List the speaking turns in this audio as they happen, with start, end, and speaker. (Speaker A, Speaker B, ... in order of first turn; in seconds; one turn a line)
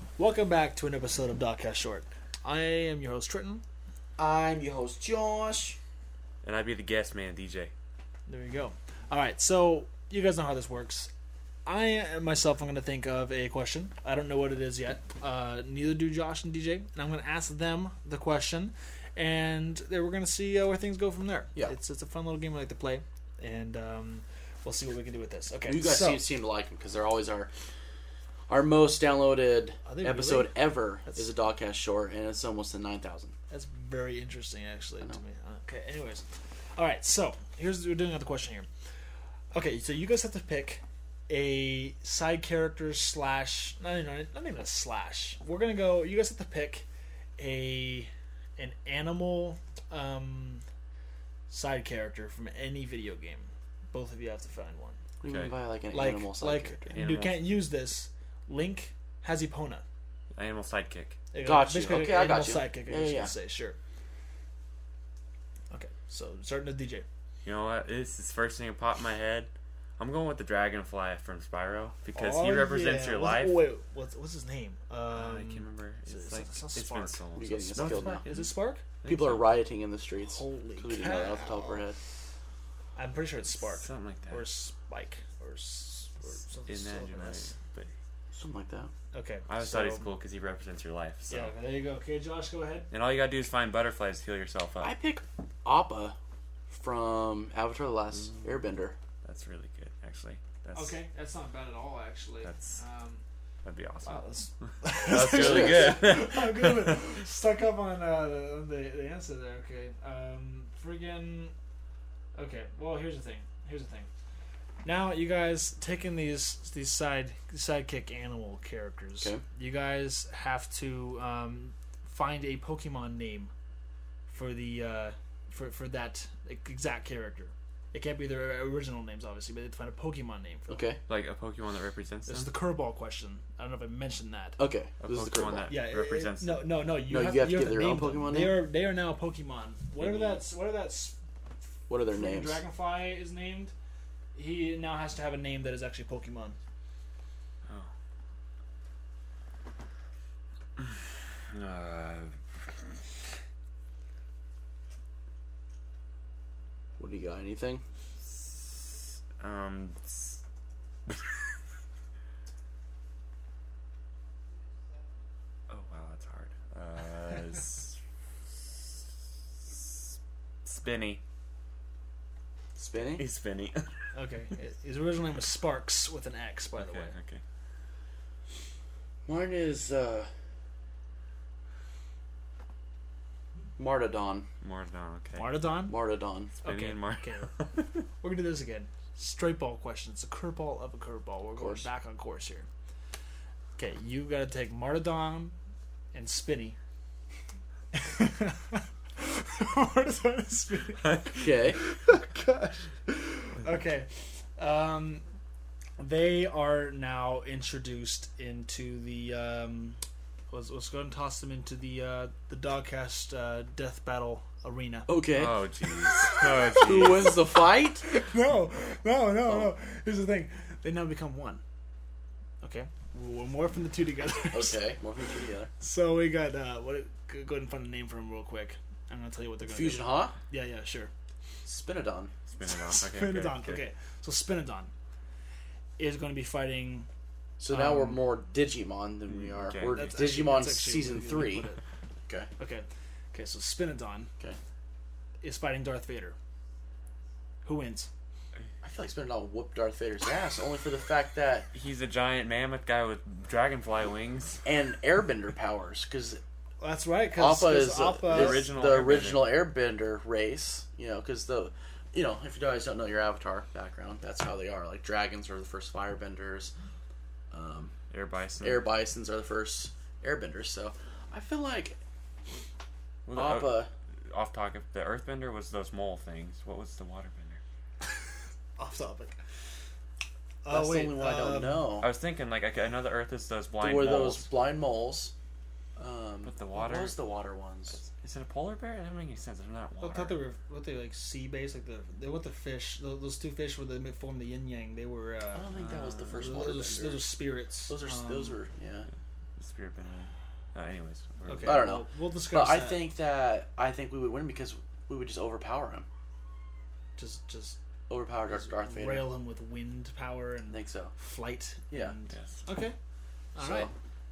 Speaker A: 0.2-3.6
Speaker B: 4.2-5.8
Speaker C: 6.4-7.7
Speaker A: 8.3-11.1
Speaker A: 11.7-26.2
Speaker B: 25.7-27.5
Speaker B: 28.5-33.4
Speaker A: 29.9-31.3
Speaker A: 33.5-38.7
Speaker A: 39.5-46.9
Speaker A: 47.4-50.6
Speaker A: 51.5-55.0
Speaker B: 55.2-57.0
Speaker C: 55.3-55.5
Speaker A: 55.9-59.8
Speaker C: 56.9-57.5
Speaker C: 60.3-61.2
Speaker A: 61.3-63.8
Speaker B: 61.4-63.3
Speaker A: 65.7-67.1
Speaker C: 67.4-73.6
Speaker A: 72.2-78.8
Speaker C: 75.1-78.5
Speaker B: 77.3-78.2
Speaker C: 79.0-79.5
Speaker B: 79.0-82.0
Speaker A: 80.2-81.9
Speaker A: 83.0-87.5
Speaker C: 83.7-84.5
Speaker C: 86.7-87.9
Speaker B: 88.3-88.9
Speaker A: 89.1-90.2
Speaker C: 89.5-91.5
Speaker A: 91.3-92.9
Speaker C: 92.9-94.9
Speaker B: 94.8-96.2
Speaker B: 96.7-99.0
Speaker C: 98.2-98.5
Speaker C: 99.2-101.0
Speaker A: 100.7-103.2
Speaker C: 102.4-102.8
Speaker C: 103.6-104.2
Speaker A: 104.0-111.5
Speaker C: 104.9-107.0
Speaker B: 105.3-106.0
Speaker A: 112.3-114.1
Speaker A: 114.8-123.5
Speaker A: 124.3-130.9
Speaker B: 130.7-131.0
Speaker C: 131.1-132.5
Speaker A: 132.3-134.6
Speaker B: 134.6-135.8
Speaker C: 135.0-136.7
Speaker A: 135.7-141.2
Speaker B: 137.1-138.6
Speaker B: 141.9-142.6
Speaker A: 142.1-143.7
Speaker A: 144.3-146.6
Speaker C: 151.5-152.3
Speaker B: 157.0-157.8
Speaker C: 158.3-158.9
Speaker C: 159.4-160.4
Speaker C: 165.7-168.0
Speaker C: 169.7-170.1
Speaker C: 170.7-171.2
Speaker B: 172.8-173.3
Speaker C: 173.2-173.9
Speaker A: 174.1-177.1
Speaker C: 176.8-177.4
Speaker B: 179.3-180.3
Speaker B: 183.8-184.5
Speaker C: 184.6-185.7
Speaker A: 185.4-186.0
Speaker B: 185.9-186.5
Speaker C: 186.6-187.9
Speaker A: 186.6-187.5
Speaker A: 188.2-192.7
Speaker B: 191.6-191.9
Speaker A: 193.8-195.6
Speaker A: 196.1-196.8
Speaker A: 197.9-201.2
Speaker C: 201.1-201.4
Speaker B: 201.4-201.8
Speaker A: 201.8-205.2
Speaker A: 206.0-210.0
Speaker A: 210.5-215.1
Speaker B: 215.1-215.6
Speaker C: 215.3-217.4
Speaker A: 216.2-217.4
Speaker B: 216.8-218.1
Speaker A: 218.1-221.6
Speaker B: 219.5-219.7
Speaker A: 222.6-224.8
Speaker B: 224.5-225.7
Speaker A: 225.8-231.1
Speaker B: 229.6-230.3
Speaker B: 231.7-232.3
Speaker C: 232.5-233.9
Speaker A: 232.9-234.9
Speaker A: 236.0-237.1
Speaker B: 237.6-241.7
Speaker A: 237.7-238.2
Speaker C: 239.3-240.2
Speaker A: 239.9-241.8
Speaker A: 242.6-244.3
Speaker A: 245.4-246.3
Speaker A: 247.6-248.1
Speaker B: 248.8-251.7
Speaker C: 251.7-254.6
Speaker B: 254.7-256.4
Speaker A: 256.8-258.7
Speaker B: 257.3-266.7
Speaker C: 258.3-259.6
Speaker B: 267.5-267.9
Speaker C: 268.1-268.9
Speaker B: 268.6-272.0
Speaker C: 273.3-277.6
Speaker B: 273.3-273.9
Speaker A: 278.8-279.4
Speaker A: 280.6-281.9
Speaker B: 280.7-282.1
Speaker C: 282.0-284.5
Speaker B: 283.8-285.3
Speaker B: 286.0-288.0
Speaker C: 286.4-287.2
Speaker C: 288.1-290.4
Speaker A: 290.0-295.7
Speaker B: 295.5-297.3
Speaker C: 295.7-296.6
Speaker A: 296.3-298.6
Speaker B: 297.9-299.1
Speaker C: 299.6-301.9
Speaker A: 301.5-303.1
Speaker B: 301.6-306.1
Speaker A: 307.2-307.8
Speaker B: 308.1-309.3
Speaker A: 308.5-312.9
Speaker B: 310.7-311.1
Speaker C: 312.3-312.6
Speaker A: 313.6-313.9
Speaker B: 313.6-313.9